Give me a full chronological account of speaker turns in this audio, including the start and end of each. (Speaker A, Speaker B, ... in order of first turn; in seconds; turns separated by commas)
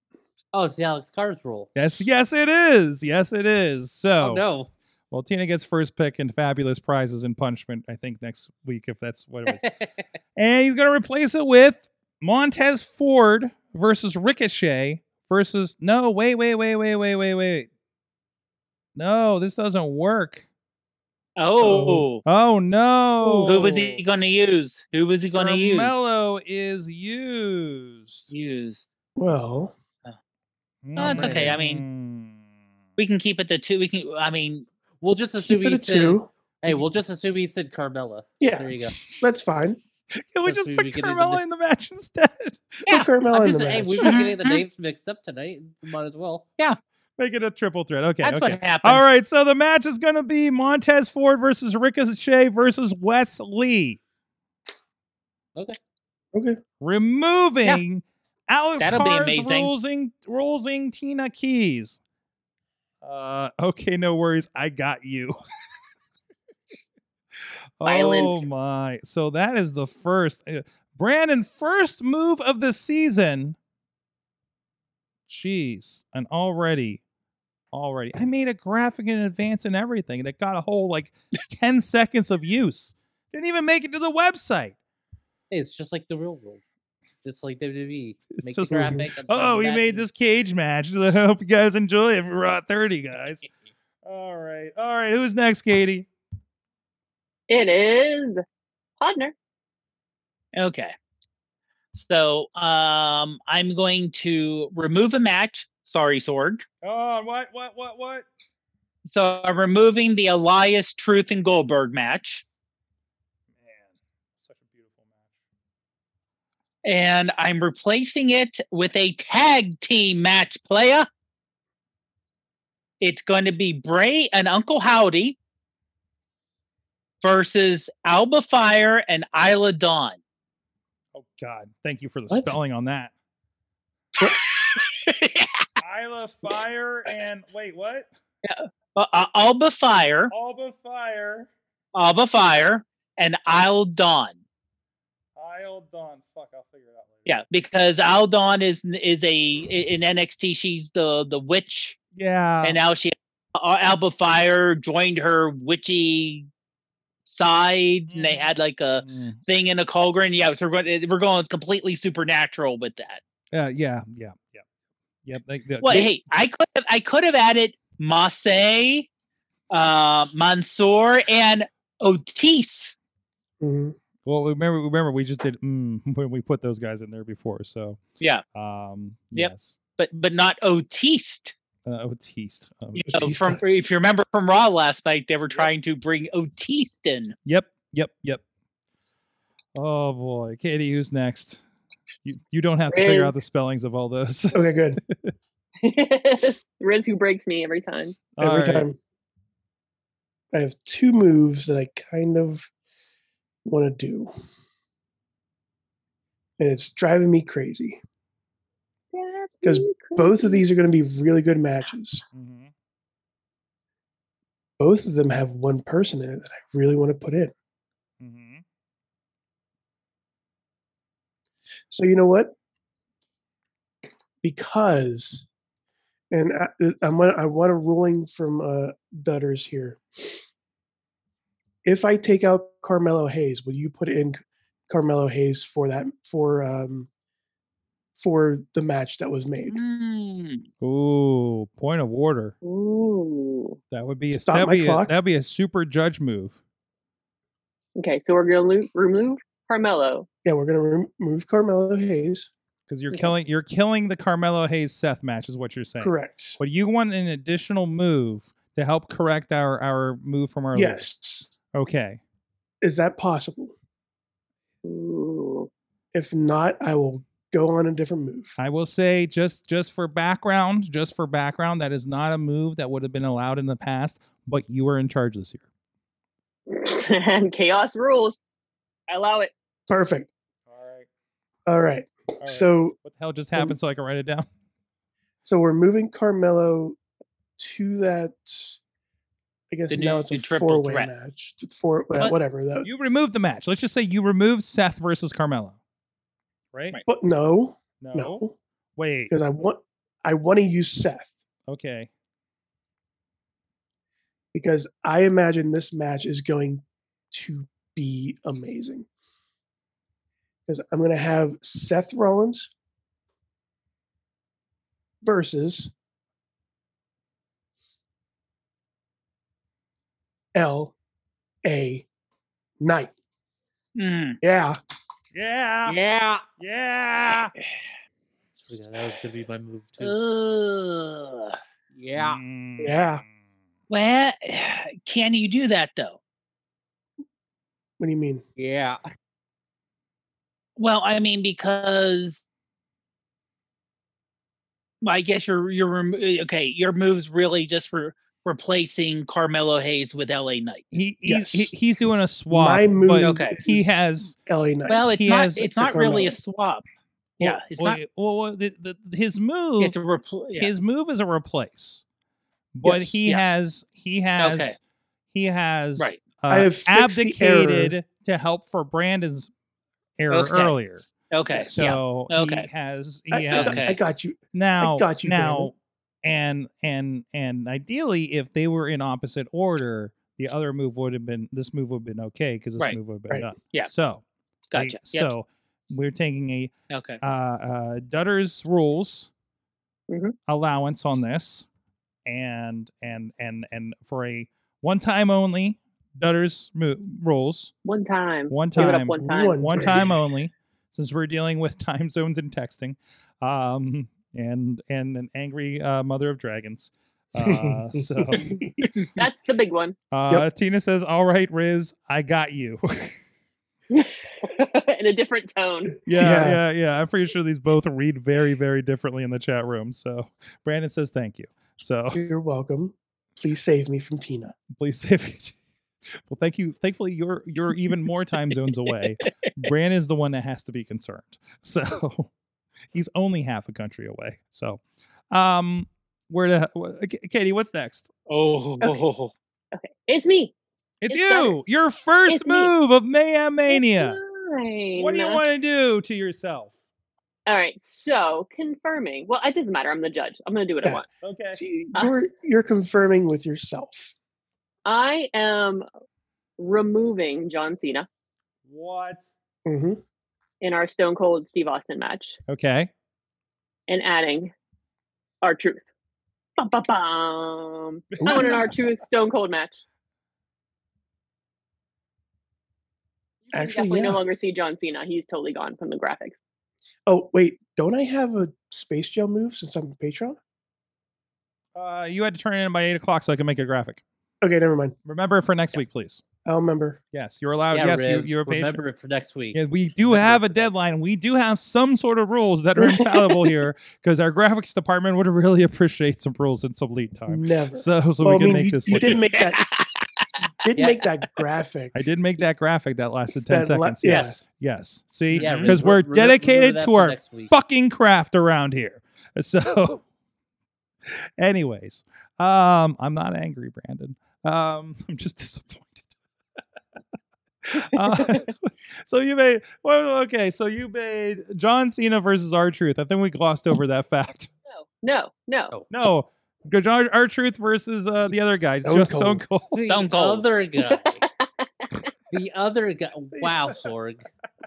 Speaker A: 0.5-1.7, Speaker B: 1.8-4.5, Speaker A: 4.2-4.7, Speaker B: 5.1-9.7, Speaker A: 9.5-9.9, Speaker B: 10.4-17.7, Speaker B: 19.0-20.5, Speaker C: 21.4-22.2, Speaker D: 21.6-22.1, Speaker B: 22.2-24.0, Speaker D: 23.2-23.8, Speaker C: 23.4-26.0, Speaker B: 25.4-28.3, Speaker C: 28.3-28.9, Speaker D: 29.2-29.7, Speaker B: 30.8-32.4, Speaker C: 31.0-31.8, Speaker A: 31.0-31.6, Speaker C: 33.0-34.7, Speaker A: 35.0-39.0, Speaker D: 35.4-36.3, Speaker D: 38.4-39.8, Speaker B: 40.1-42.8, Speaker A: 40.5-41.4, Speaker D: 42.9-44.2, Speaker A: 43.3-46.5, Speaker C: 44.1-44.6, Speaker B: 47.2-54.0, Speaker C: 48.2-49.1, Speaker D: 56.3-56.6, Speaker B: 56.8-62.0, Speaker C: 58.8-59.7, Speaker B: 63.0-65.4, Speaker B: 67.8-73.6, Speaker E: 67.8-68.5, Speaker B: 75.3-77.0, Speaker B: 77.7-84.8, Speaker A: 85.5-86.6, Speaker A: 87.2-90.1, Speaker B: 88.3-93.4, Speaker D: 88.7-89.1, Speaker B: 94.0-96.1, Speaker E: 97.5-98.4, Speaker E: 99.0-99.3, Speaker C: 100.5-101.0, Speaker C: 101.9-106.7, Speaker B: 106.8-108.3, Speaker C: 109.1-112.4, Speaker B: 113.6-115.3, Speaker C: 116.8-121.1, Speaker C: 123.0-125.4, Speaker C: 127.2-130.2, Speaker B: 131.2-133.1, Speaker D: 132.3-132.6, Speaker C: 134.2-135.6, Speaker B: 135.8-138.1, Speaker C: 138.4-140.3, Speaker B: 140.3-141.5, Speaker C: 141.9-144.4, Speaker B: 145.4-147.4, Speaker C: 147.3-152.0, Speaker B: 152.1-152.8, Speaker C: 152.6-156.5, Speaker C: 157.3-163.2, Speaker B: 158.1-158.5, Speaker B: 159.0-159.4, Speaker B: 163.5-164.6, Speaker B: 165.2-166.1, Speaker C: 165.8-169.1, Speaker C: 169.7-172.9, Speaker D: 173.6-174.0, Speaker B: 174.2-178.0, Speaker B: 178.6-179.8, Speaker C: 179.3-181.6, Speaker B: 181.8-183.3, Speaker C: 182.9-187.4, Speaker D: 183.1-183.6, Speaker B: 187.4-188.4, Speaker B: 189.8-191.6, Speaker B: 192.2-195.3, Speaker E: 192.9-193.4, Speaker D: 194.5-195.0, Speaker E: 195.8-198.3, Speaker B: 198.3-198.9, Speaker D: 198.4-199.0, Speaker D: 200.5-202.7, Speaker D: 203.7-204.3, Speaker D: 206.6-208.0, Speaker E: 209.1-210.6, Speaker D: 209.6-212.2, Speaker B: 212.3-212.7, Speaker D: 214.8-217.5, Speaker B: 218.2-218.6, Speaker D: 221.9-222.5, Speaker D: 224.4-225.5, Speaker D: 226.3-230.4, Speaker D: 231.8-237.1, Speaker D: 238.2-239.8, Speaker C: 239.7-240.7, Speaker B: 240.8-242.6, Speaker E: 242.6-243.8, Speaker B: 243.9-246.6, Speaker D: 244.3-245.2, Speaker E: 248.0-250.3, Speaker D: 250.4-252.5, Speaker B: 252.9-261.0, Speaker D: 256.0-256.6, Speaker D: 260.7-261.5, Speaker B: 261.7-262.2, Speaker D: 262.8-263.7, Speaker E: 264.8-265.7, Speaker D: 266.1-268.6, Speaker B: 268.6-275.7, Speaker E: 276.7-278.4, Speaker E: 279.1-279.5, Speaker D: 279.9-280.3, Speaker B: 280.7-281.1, Speaker D: 281.7-283.0, Speaker B: 282.4-284.5, Speaker D: 285.4-287.0, Speaker D: 287.6-288.8, Speaker D: 289.7-292.9, Speaker C: 289.9-291.1, Speaker B: 292.8-295.8, Speaker B: 296.7-297.0, Speaker D: 297.1-298.6, Speaker B: 298.0-298.4, Speaker B: 299.0-299.3, Speaker D: 299.3-301.4, Speaker B: 301.7-302.1, Speaker D: 304.5-309.1, Speaker D: 310.7-312.7, Speaker D: 315.2-315.9, Speaker D: 320.6-320.9, Speaker D: 321.6-322.1, Speaker D: 322.8-323.1, Speaker C: 324.0-324.4, Speaker D: 324.4-324.8, Speaker B: 325.3-326.0, Speaker A: 325.9-326.4, Speaker B: 326.6-327.5, Speaker A: 328.7-330.2, Speaker C: 330.0-331.6, Speaker A: 331.9-332.4, Speaker B: 332.2-333.2, Speaker D: 332.8-333.2, Speaker C: 333.9-336.2, Speaker D: 338.0-338.4, Speaker A: 338.6-339.0, Speaker C: 340.8-342.4, Speaker C: 345.0-350.9, Speaker B: 350.9-354.4, Speaker D: 351.2-351.7, Speaker D: 352.5-356.4, Speaker C: 353.2-353.6, Speaker C: 354.9-356.9, Speaker B: 355.1-355.7, Speaker C: 357.4-358.0, Speaker B: 357.4-360.0, Speaker C: 359.8-360.7, Speaker B: 360.6-362.0, Speaker B: 362.7-364.8, Speaker D: 362.8-363.2, Speaker C: 364.4-364.8, Speaker B: 365.3-369.5, Speaker C: 366.0-366.3, Speaker D: 366.5-367.9, Speaker B: 370.2-371.1, Speaker C: 370.3-372.7, Speaker D: 371.5-372.0, Speaker B: 371.7-374.0, Speaker D: 373.3-375.7, Speaker C: 373.5-374.0, Speaker B: 374.5-384.2, Speaker C: 383.6-383.9, Speaker C: 384.7-385.3, Speaker B: 384.8-389.3, Speaker C: 386.9-387.2, Speaker E: 390.1-390.4, Speaker B: 390.5-391.7, Speaker B: 392.3-397.7, Speaker E: 397.9-400.0, Speaker B: 398.5-408.6, Speaker D: 398.8-400.1, Speaker D: 407.4-408.9, Speaker E: 409.2-410.0, Speaker B: 410.1-413.2, Speaker E: 413.9-416.0, Speaker B: 416.1-422.2, Speaker D: 416.1-416.6, Speaker D: 422.1-424.6, Speaker B: 424.7-425.6, Speaker B: 426.3-432.3, Speaker B: 432.9-438.1, Speaker C: 438.3-439.3, Speaker E: 439.7-440.5, Speaker B: 441.0-444.2, Speaker E: 441.1-441.6, Speaker E: 442.3-442.7, Speaker E: 443.7-445.4, Speaker B: 445.0-446.7, Speaker E: 447.5-451.1, Speaker D: 450.8-454.1, Speaker B: 451.2-451.6, Speaker E: 454.9-455.9, Speaker E: 456.6-458.1, Speaker B: 458.7-459.3, Speaker D: 459.7-460.0, Speaker E: 460.6-462.4, Speaker B: 462.5-462.9, Speaker E: 463.9-464.5, Speaker E: 465.4-465.8, Speaker E: 466.6-469.8, Speaker B: 468.1-468.8, Speaker D: 468.2-468.7, Speaker E: 473.5-476.4, Speaker D: 473.5-474.2, Speaker D: 477.1-480.4, Speaker B: 481.8-484.0, Speaker D: 484.4-485.0, Speaker B: 485.1-486.2, Speaker D: 486.4-487.0, Speaker B: 487.1-488.8, Speaker A: 487.7-490.7, Speaker B: 489.5-499.2, Speaker E: 492.8-493.5, Speaker D: 497.3-499.6, Speaker C: 498.9-500.3, Speaker D: 500.6-502.1, Speaker A: 500.8-501.0, Speaker B: 501.9-510.0, Speaker D: 503.3-504.4, Speaker C: 504.1-504.4, Speaker C: 505.3-505.8, Speaker A: 505.3-507.5, Speaker B: 511.1-516.1, Speaker B: 517.6-524.5, Speaker E: 518.2-518.4, Speaker E: 524.7-525.8, Speaker B: 525.9-529.8, Speaker D: 528.8-529.5, Speaker A: 529.7-531.2, Speaker C: 529.9-530.5, Speaker E: 530.9-531.3, Speaker A: 532.3-534.3